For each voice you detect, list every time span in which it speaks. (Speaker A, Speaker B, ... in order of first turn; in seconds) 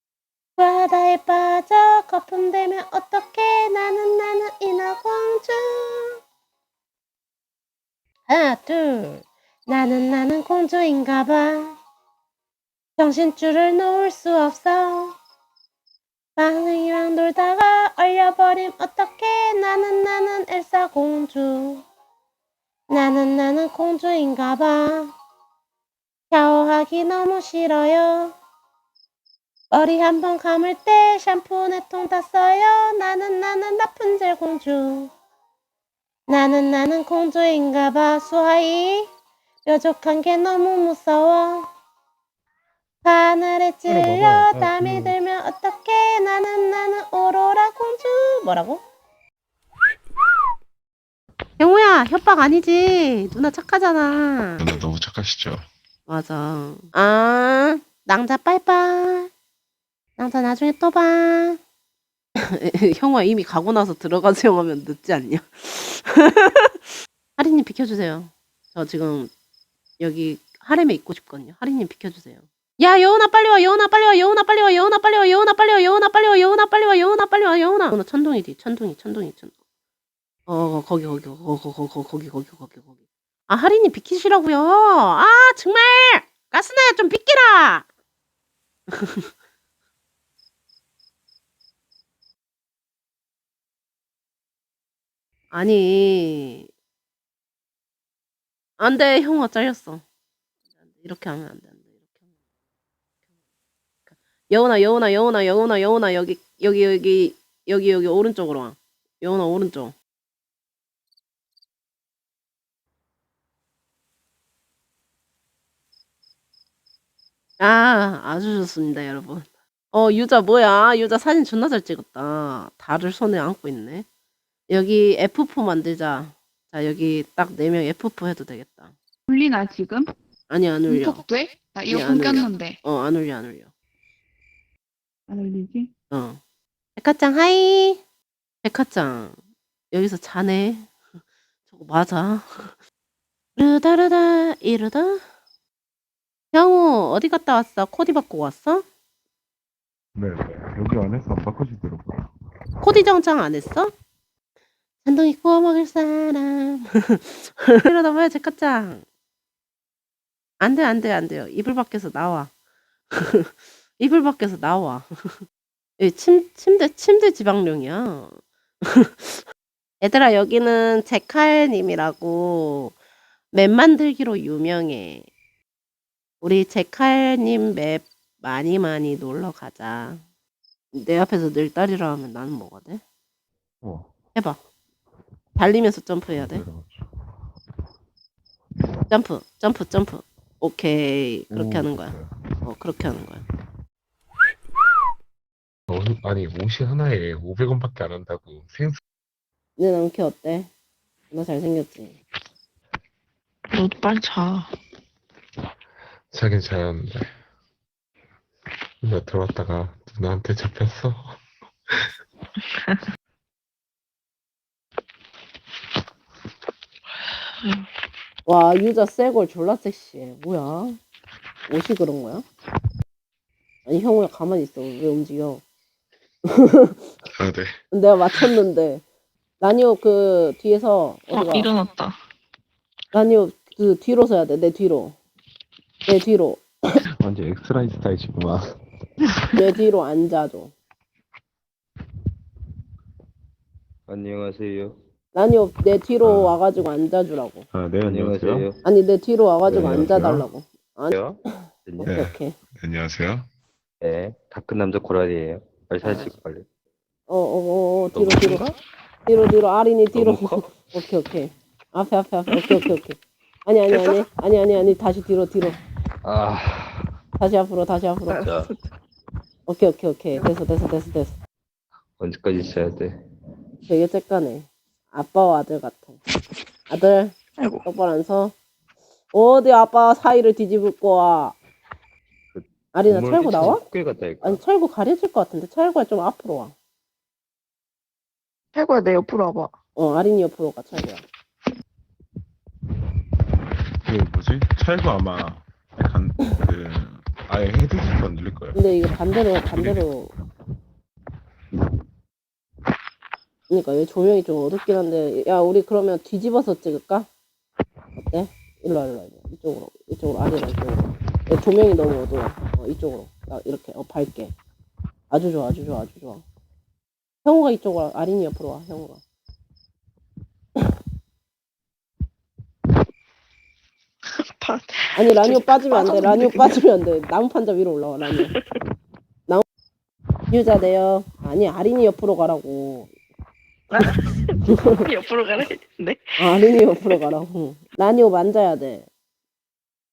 Speaker A: 0.6-6.2, 8.3-11.8, 13.0-15.2, 16.4-21.9, 22.9-25.1, 26.3-28.4, 29.7-35.1, 36.3-39.1, 39.6-41.7, 43.0-48.8, 51.6-54.7, 56.1-59.3, 60.2-61.6, 62.4-66.8, 67.4-69.3, 70.0-79.5, 80.5-82.9, 83.5-87.9, 88.9-89.3, 95.5-96.7, 98.8-100.0, 101.0-102.0, 104.1-109.9, 117.6-124.1, 124.7-128.9, 130.5-131.2, 131.9-133.7, 136.1-136.4, 137.0-138.0, 138.6-139.4, 139.9-140.9, 141.7-142.8, 143.6-145.2, 146.5-148.8, 152.8-153.9, 155.0-159.1, 160.6-162.5, 163.1-165.4, 166.0-169.4, 170.0-172.9, 173.5-175.3, 176.4-180.2, 180.9-183.0, 185.6-186.7, 189.1-193.4, 199.8-200.7, 201.3-202.2, 218.5-221.0, 221.7-222.4, 223.9-225.6, 226.5-227.1, 227.9-229.0, 229.6-231.8, 233.1-235.2, 236.1-236.7, 239.6-240.7, 245.3-247.7, 248.8-252.6, 257.3-258.6, 259.3-265.8, 267.4-268.5, 269.7-271.4, 273.9-276.2, 276.9-278.6, 279.3-281.6, 282.9-283.9, 284.4-286.7, 290.0-291.2, 298.7-300.3, 303.7-307.3, 308.2-314.5, 315.3-316.4, 317.4-319.2, 325.2-328.5, 330.5-333.1, 336.4-339.1
Speaker B: 54.6-55.7, 150.2-152.3, 186.4-186.9, 191.5-192.2, 195.9-199.0, 206.3-207.3, 209.0-211.4, 227.3-227.8, 237.2-238.7, 246.3-246.6, 247.7-248.7, 249.8-250.4, 252.1-253.5, 294.0-298.8, 299.8-300.0
Speaker C: 129.3-130.1, 130.9-132.8, 135.3-135.9
Speaker D: 203.7-204.7, 217.6-217.9, 231.3-232.2, 268.4-268.7, 277.6-277.9, 288.8-289.7, 324.4-326.8, 333.9-334.2, 335.0-337.1
Speaker E: 244.1-245.0, 248.0-248.8, 249.7-250.2, 251.1-252.1, 254.0-256.7, 258.1-258.8, 260.1-260.9, 266.2-267.1, 268.4-268.7, 272.2-273.1, 282.5-284.6